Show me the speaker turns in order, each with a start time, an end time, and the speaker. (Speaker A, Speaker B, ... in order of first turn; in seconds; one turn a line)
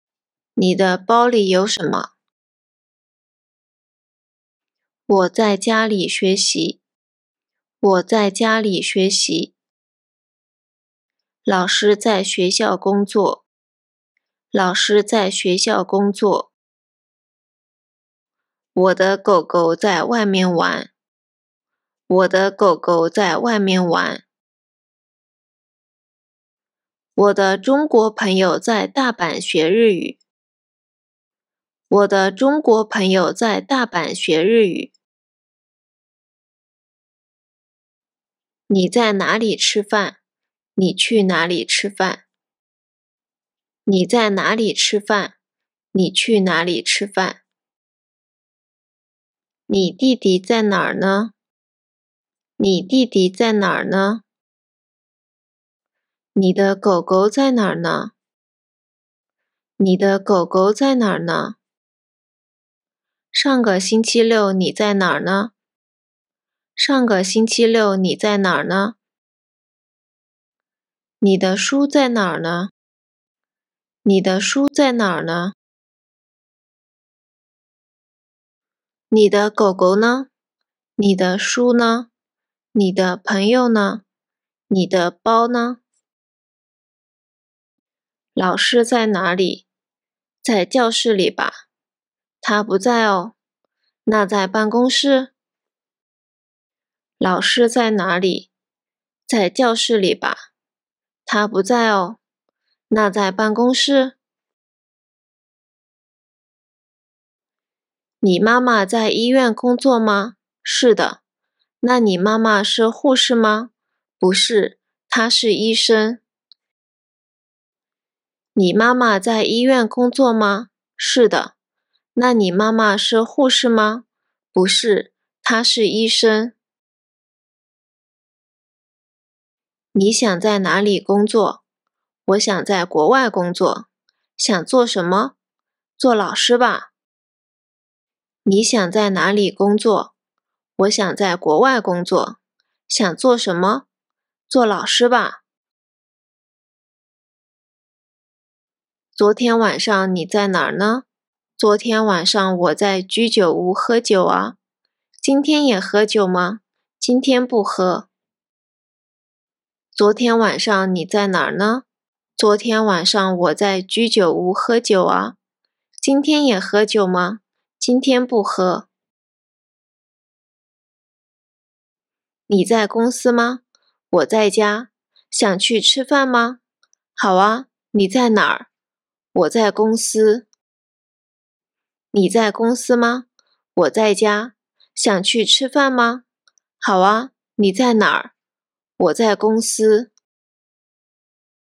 Speaker A: 0.6-2.1
Speaker A: 5.1-6.8
Speaker A: 7.8-9.5
Speaker A: 11.4-13.4
Speaker A: 14.5-16.5
Speaker A: 18.8-20.9
Speaker A: 22.1-24.2
Speaker A: 27.2-30.2
Speaker A: 31.9-34.9
Speaker A: 38.7-40.2
Speaker A: 40.8-42.2
Speaker A: 43.9-45.4
Speaker A: 45.9-47.4
Speaker A: 49.7-51.3
Speaker A: 52.6-54.2
Speaker A: 56.4-58.1
Speaker A: 59.8-61.6
Speaker A: 63.3-65.5
Speaker A: 66.8-69.0
Speaker A: 71.2-72.7
Speaker A: 74.0-75.5
Speaker A: 79.1-80.3
Speaker A: 81.0-82.1
Speaker A: 82.7-84.0
Speaker A: 84.7-85.8
Speaker A: 88.4-89.7
Speaker A: 90.4-91.6
Speaker A: 92.4-93.3
Speaker A: 94.1-95.3
Speaker A: 97.2-98.5
Speaker A: 99.3-100.4
Speaker A: 101.2-102.2
Speaker A: 102.9-104.2
Speaker A: 108.2-111.2
Speaker A: 111.8-116.2
Speaker A: 118.6-121.5
Speaker A: 122.2-126.6
Speaker A: 129.9-131.6
Speaker A: 132.3-133.9
Speaker A: 134.4-135.3
Speaker A: 136.0-136.9
Speaker A: 138.4-140.1
Speaker A: 140.8-142.4
Speaker A: 142.9-143.9
Speaker A: 144.5-145.4
Speaker A: 149.1-151.1
Speaker A: 151.6-154.6
Speaker A: 155.2-158.1
Speaker A: 159.9-161.8
Speaker A: 162.4-165.4
Speaker A: 166.0-168.9
Speaker A: 172.5-176.6
Speaker A: 177.2-178.7
Speaker A: 179.3-180.5
Speaker A: 182.1-186.2
Speaker A: 186.8-188.3
Speaker A: 189.0-190.1